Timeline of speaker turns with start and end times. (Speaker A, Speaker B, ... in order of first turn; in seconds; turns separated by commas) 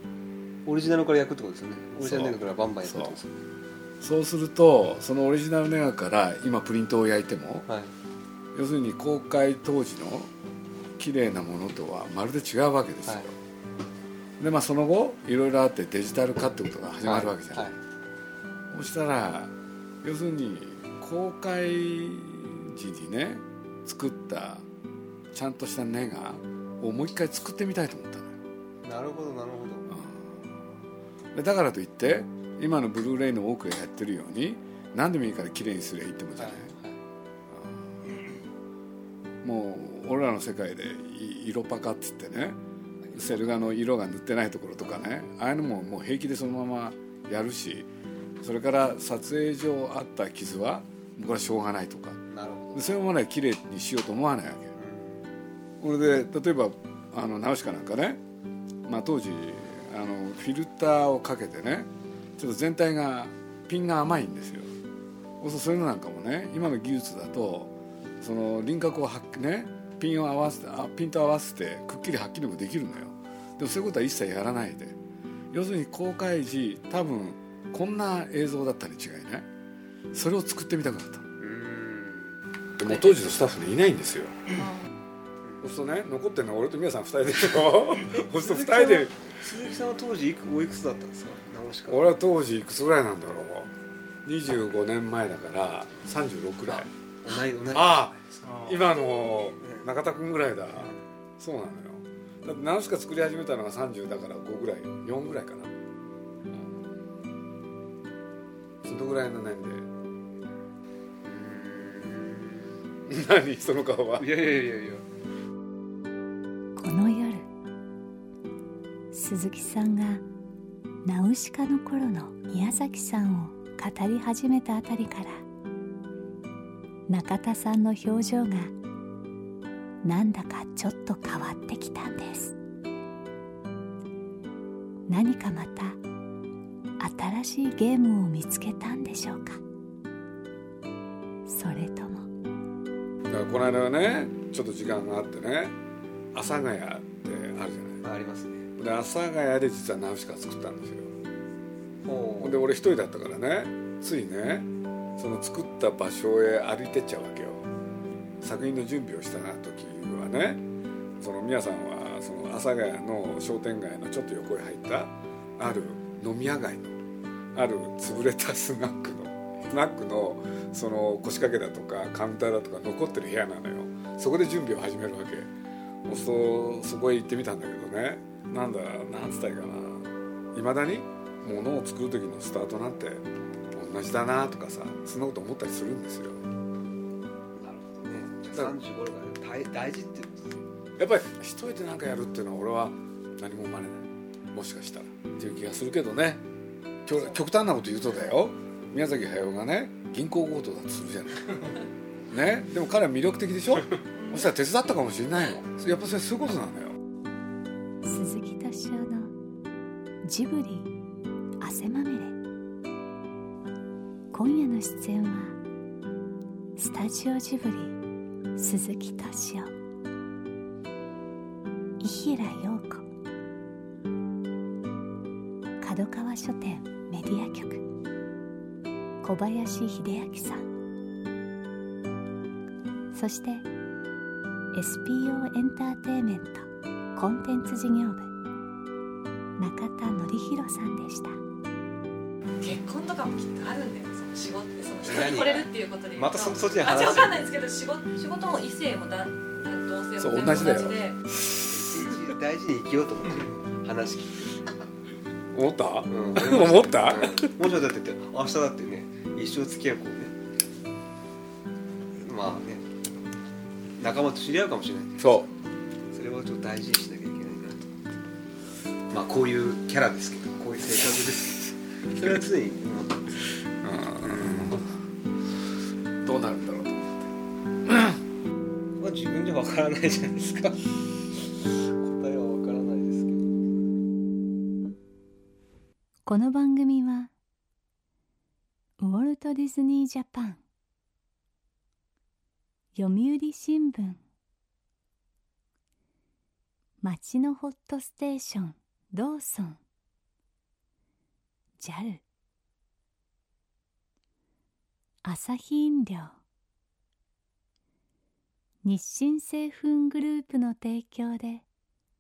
Speaker A: 0.7-3.3, Speaker B: 2.0-3.2, Speaker B: 4.0-7.7, Speaker A: 7.7-7.9, Speaker B: 8.5-10.3, Speaker B: 11.0-13.4, Speaker A: 13.1-13.3, Speaker B: 14.4-17.7, Speaker A: 17.0-17.8, Speaker B: 18.7-24.6, Speaker B: 25.3-28.4, Speaker A: 28.8-29.9, Speaker B: 29.9-30.5, Speaker B: 31.3-36.7, Speaker A: 36.4-37.0, Speaker B: 37.5-38.2, Speaker B: 39.4-42.6, Speaker A: 43.0-43.8, Speaker B: 43.1-47.9, Speaker B: 48.4-52.2, Speaker A: 52.3-53.0, Speaker B: 52.7-54.7, Speaker A: 54.8-55.2, Speaker B: 55.8-58.2, Speaker B: 58.9-64.7, Speaker B: 65.4-75.0, Speaker B: 75.5-79.5, Speaker B: 80.1-81.3, Speaker A: 81.4-83.2, Speaker B: 82.8-84.5, Speaker C: 84.6-84.8, Speaker B: 85.6-89.3, Speaker A: 88.0-92.1, Speaker B: 91.9-93.7, Speaker B: 94.2-96.9, Speaker A: 96.7-98.8, Speaker B: 97.7-105.7, Speaker B: 108.8-109.9, Speaker A: 111.2-112.7, Speaker B: 113.1-114.3, Speaker A: 114.2-115.0, Speaker D: 116.8-117.5, Speaker D: 119.1-120.2, Speaker D: 121.0-125.5, Speaker D: 127.1-128.7, Speaker D: 130.0-132.5, Speaker D: 135.1-136.0, Speaker D: 137.0-139.6, Speaker D: 141.5-142.3, Speaker B: 143.3-145.8, Speaker B: 146.3-148.0, Speaker A: 148.0-148.7, Speaker B: 148.8-151.1, Speaker A: 152.0-152.6, Speaker B: 152.4-157.7, Speaker B: 158.4-160.7, Speaker B: 161.2-167.0, Speaker B: 167.5-175.5, Speaker B: 176.1-186.5, Speaker A: 187.6-190.6, Speaker B: 191.0-196.4, Speaker B: 197.1-201.7, Speaker B: 202.3-207.0, Speaker D: 208.0-209.3, Speaker D: 210.2-210.9, Speaker D: 211.6-212.4, Speaker D: 214.3-215.6, Speaker D: 216.8-218.0, Speaker D: 218.6-219.7, Speaker D: 222.0-223.1, Speaker D: 225.8-227.8, Speaker D: 229.2-230.7, Speaker D: 233.1-233.7, Speaker D: 234.7-238.3, Speaker D: 239.6-241.4, Speaker C: 242.6-251.2, Speaker A: 245.0-247.5, Speaker B: 250.2-251.9, Speaker A: 251.7-254.5, Speaker B: 255.5-257.5, Speaker A: 256.1-260.4, Speaker A: 262.1-262.9, Speaker A: 264.0-265.4, Speaker B: 265.2-265.5, Speaker A: 266.1-267.9, Speaker A: 269.1-273.4, Speaker B: 273.8-274.9, Speaker A: 274.2-274.8, Speaker B: 276.2-277.3, Speaker B: 277.9-278.2, Speaker A: 279.0-283.6, Speaker D: 286.3-287.3, Speaker D: 289.0-290.6, Speaker D: 292.9-294.2, Speaker D: 297.0-299.8, Speaker D: 301.8-302.2, Speaker D: 305.2-306.4, Speaker D: 308.8-311.6